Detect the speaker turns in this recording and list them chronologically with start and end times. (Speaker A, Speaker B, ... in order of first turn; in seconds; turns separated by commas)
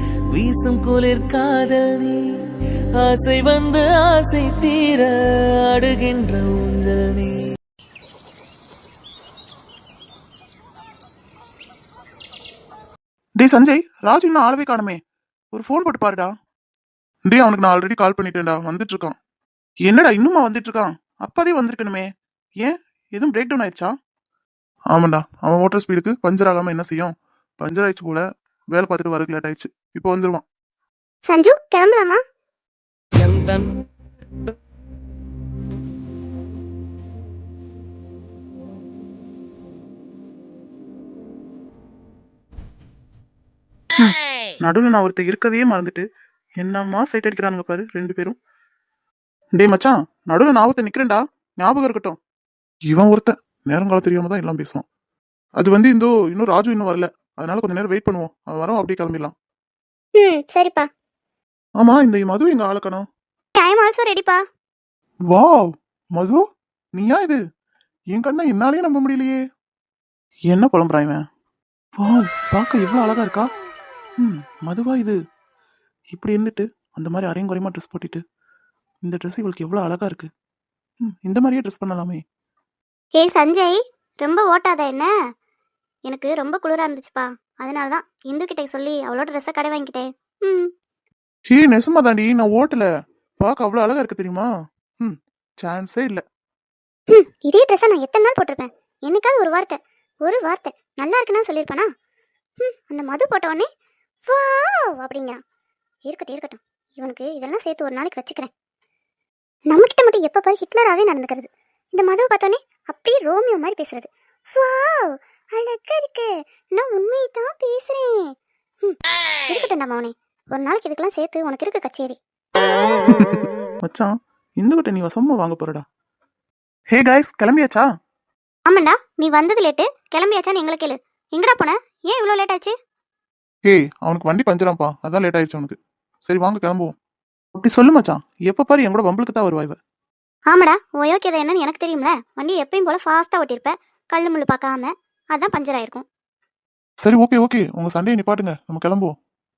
Speaker A: 0.3-2.2, Speaker A: 3.0-7.4, Speaker B: 13.4-15.0, Speaker B: 15.5-16.3, Speaker B: 17.3-19.2, Speaker B: 19.8-22.1, Speaker B: 22.6-23.9, Speaker B: 24.9-30.4, Speaker C: 31.3-32.2, Speaker B: 44.0-46.1, Speaker B: 46.6-48.4, Speaker B: 49.6-52.2, Speaker B: 52.9-54.8, Speaker B: 55.6-59.3, Speaker C: 60.2-60.9, Speaker B: 61.8-63.0, Speaker C: 63.5-64.4, Speaker B: 65.3-66.4, Speaker B: 67.0-67.4, Speaker B: 68.1-69.4, Speaker B: 70.5-71.2, Speaker B: 72.0-73.5, Speaker B: 74.2-75.2, Speaker B: 76.1-78.2, Speaker B: 79.0-80.3, Speaker B: 81.0-82.2, Speaker C: 83.2-85.1, Speaker C: 86.1-90.7, Speaker B: 91.5-92.9, Speaker B: 93.4-94.5, Speaker B: 95.0-96.2, Speaker C: 97.1-101.9, Speaker C: 102.6-103.7, Speaker C: 104.2-105.4, Speaker C: 106.1-108.5, Speaker C: 109.7-118.3, Speaker C: 118.8-122.2, Speaker B: 123.1-125.8, Speaker B: 126.9-127.9, Speaker C: 128.7-132.7, Speaker B: 133.7-136.9, Speaker B: 137.6-139.8, Speaker C: 140.5-146.1, Speaker B: 147.0-149.1